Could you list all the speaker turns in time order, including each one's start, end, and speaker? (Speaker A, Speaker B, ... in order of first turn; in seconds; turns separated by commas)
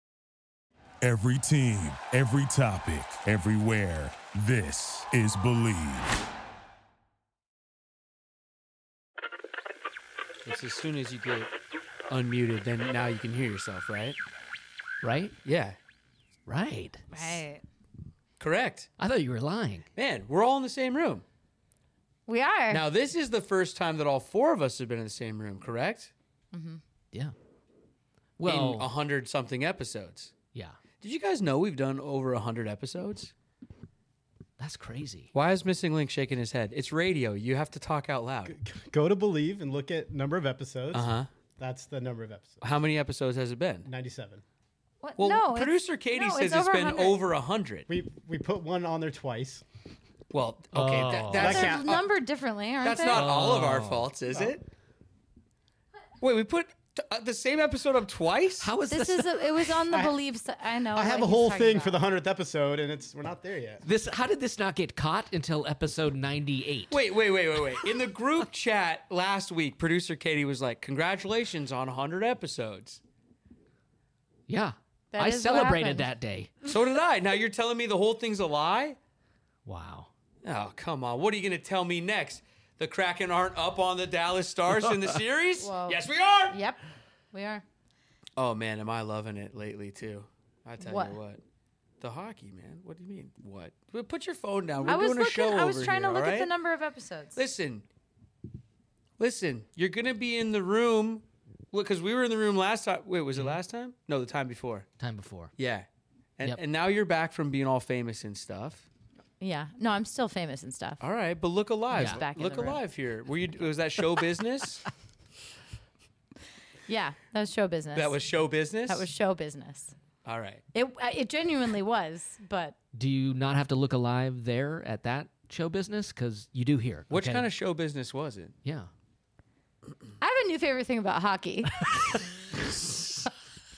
Speaker A: 1.0-6.2, Speaker B: 10.4-11.5, Speaker B: 12.1-14.2, Speaker C: 15.0-15.3, Speaker B: 15.4-15.8, Speaker C: 16.5-17.4, Speaker D: 17.1-17.6, Speaker B: 18.4-18.9, Speaker C: 19.0-19.9, Speaker B: 20.0-21.2, Speaker D: 22.3-22.8, Speaker B: 22.7-26.1, Speaker D: 26.5-26.8, Speaker C: 28.4-28.9, Speaker B: 28.5-30.4, Speaker B: 31.0-33.3, Speaker C: 34.6-35.3, Speaker B: 35.3-38.5, Speaker E: 38.5-41.1, Speaker B: 40.9-41.3, Speaker E: 41.6-42.6, Speaker B: 42.6-43.9, Speaker E: 43.8-44.4, Speaker D: 45.0-47.2, Speaker B: 45.2-47.9, Speaker E: 47.9-49.6, Speaker B: 50.3-52.0, Speaker C: 50.7-51.7, Speaker E: 51.3-52.0, Speaker D: 51.4-53.2, Speaker B: 52.8-54.7, Speaker C: 53.1-54.1, Speaker B: 56.2-58.7, Speaker C: 58.6-59.8, Speaker D: 58.9-62.0, Speaker E: 60.9-63.8, Speaker C: 63.8-67.0, Speaker B: 66.9-73.0, Speaker C: 74.5-76.5, Speaker D: 75.1-76.1, Speaker B: 76.7-79.0, Speaker C: 79.7-80.1, Speaker B: 80.4-86.6, Speaker D: 85.6-86.8, Speaker D: 87.3-87.6, Speaker B: 88.4-91.4, Speaker D: 90.8-91.2, Speaker B: 92.0-96.5, Speaker D: 94.8-97.4, Speaker B: 97.3-97.8, Speaker B: 99.2-104.9, Speaker C: 105.0-105.5, Speaker B: 105.6-105.9, Speaker B: 106.4-108.8, Speaker D: 109.4-111.0, Speaker B: 111.0-114.8, Speaker D: 111.9-112.8, Speaker C: 111.9-112.2, Speaker D: 116.9-118.2, Speaker B: 117.9-119.1, Speaker D: 118.9-119.9, Speaker B: 120.2-120.6, Speaker D: 120.7-122.8, Speaker C: 122.9-127.5, Speaker B: 127.1-128.6, Speaker D: 130.2-131.9, Speaker C: 131.8-132.2, Speaker B: 132.7-133.3